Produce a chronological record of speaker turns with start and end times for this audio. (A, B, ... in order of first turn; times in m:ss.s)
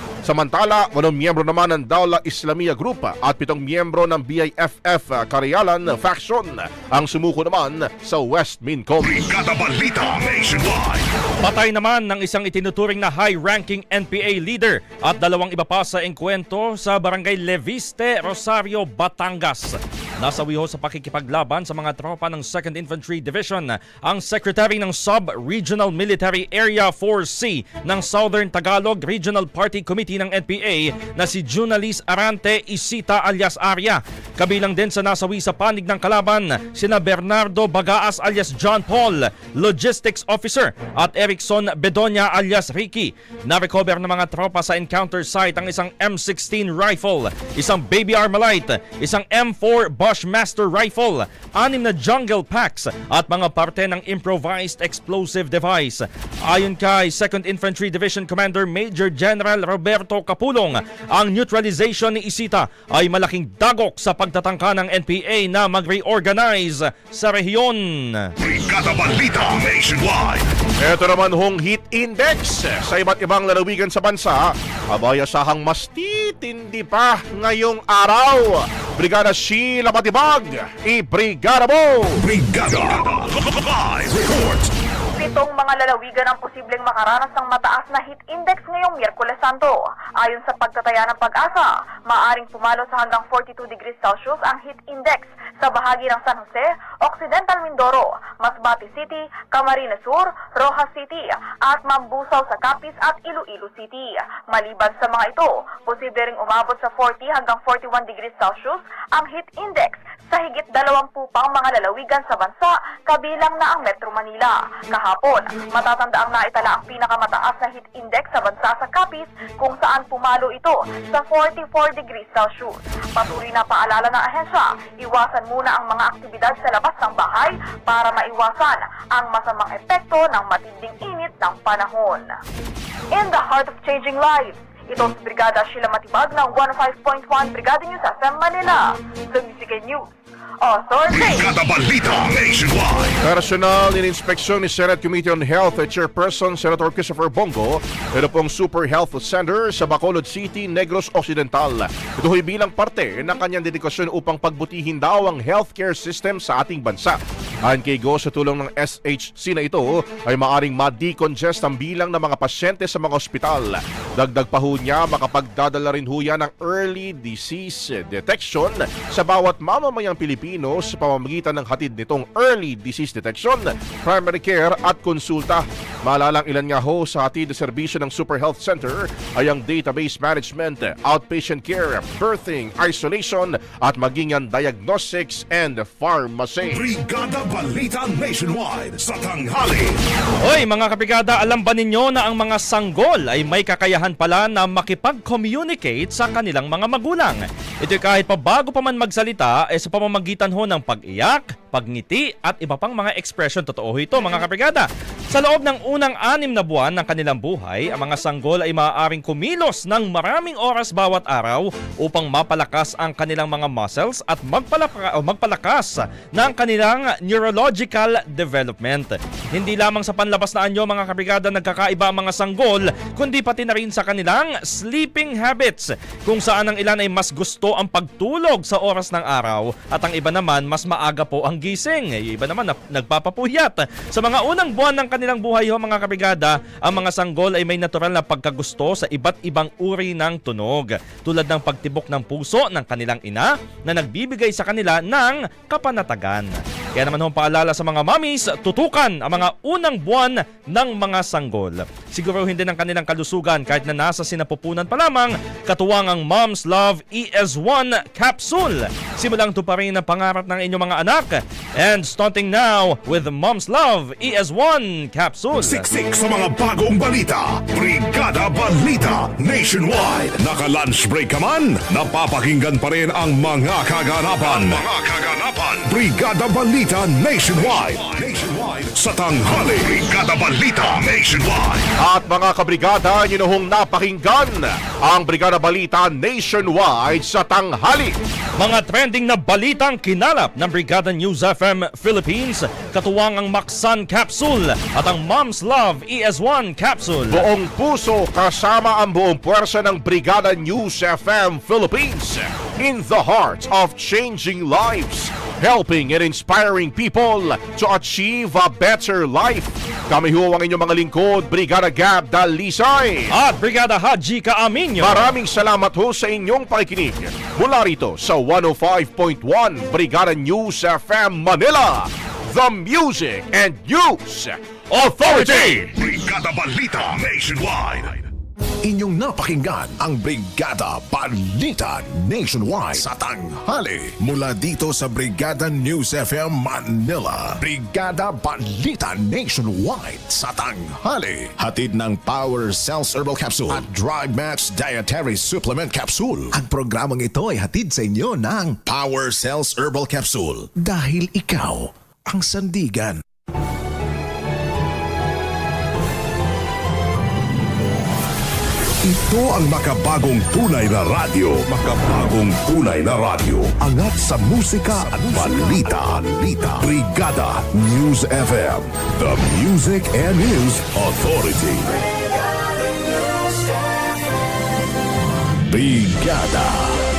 0:00.3-0:09.0 A
0:09.0-0:11.0 B
0:11.4-1:08.3 C
1:08.4-1:10.4 B
1:10.9-1:14.4 A
1:15.0-1:18.3 A
1:19.0-1:21.9 A
1:22.2-1:24.7 B
1:25.2-2:12.3 D
2:13.1-2:20.0 D
2:20.6-2:21.5 D
2:21.1-2:23.2 B
2:23.3-2:37.1 A
2:37.7-3:06.8 A
3:06.6-3:10.0 B
3:10.4-4:25.9 C
4:25.6-4:41.8 B
4:42.1-4:44.5 A
4:45.1-4:48.1 A
4:48.6-4:57.4 C
4:57.3-5:13.1 A
5:13.3-5:15.4 C
5:15.0-5:22.0 A
5:22.6-5:25.9 A
5:25.0-5:25.8 C
5:25.6-5:28.3 B
5:28.8-5:53.2 E
5:59.5-6:10.1 B
6:05.1-6:06.1 E
6:10.6-6:11.8 B
6:15.7-6:17.0 E